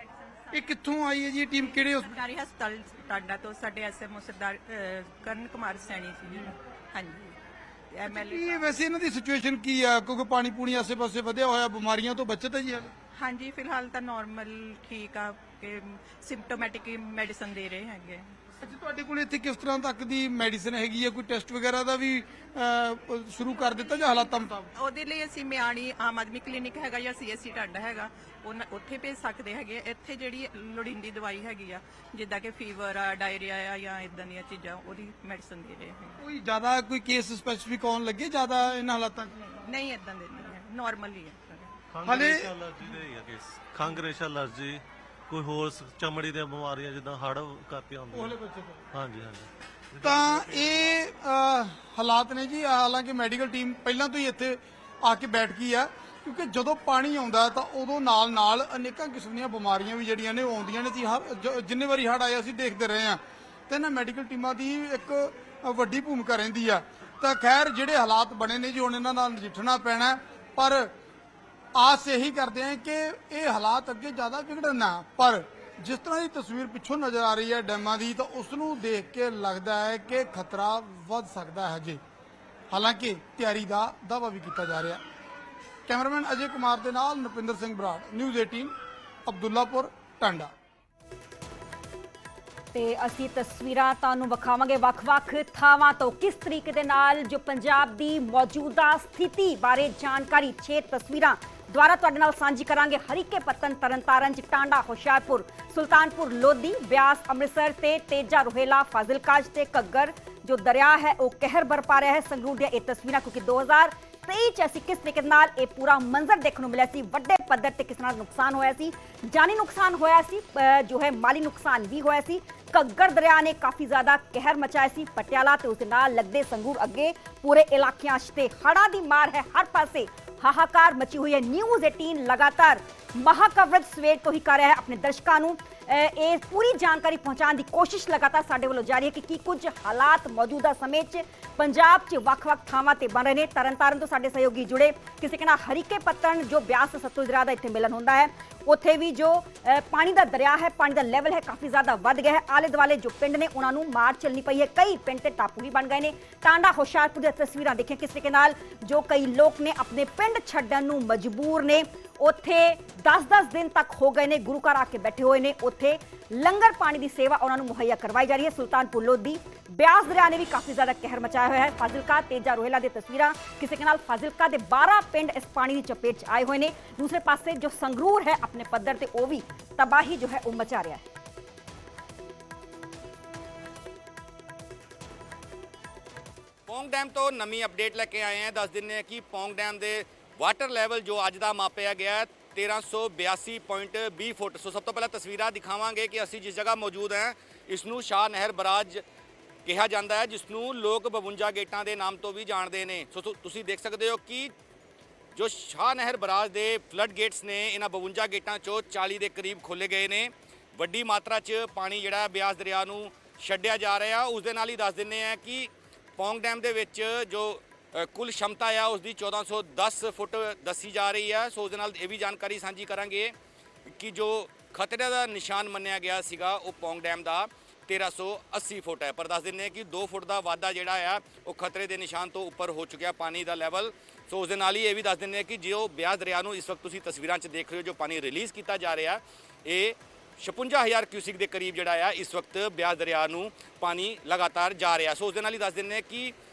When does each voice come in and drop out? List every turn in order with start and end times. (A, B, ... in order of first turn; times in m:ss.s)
0:00.4-0:00.7 A
0:00.5-0:02.2 B
0:01.5-0:07.4 A
0:07.9-0:08.7 A
0:08.0-0:12.9 B
0:13.1-0:18.4 A
0:18.6-0:24.7 B
0:24.8-0:36.2 A
0:36.2-0:39.3 B
0:39.3-0:41.7 A
0:41.9-0:51.0 C
0:42.0-0:42.5 B
0:48.1-0:48.8 B
0:50.0-1:10.9 B
1:11.7-1:22.0 B
1:22.7-1:25.0 B
1:25.9-1:28.7 B
1:29.2-1:30.5 B
1:32.7-3:01.0 D
3:06.7-3:19.0 E
3:19.6-3:24.5 E
3:25.3-3:43.3 E
3:44.0-4:06.3 E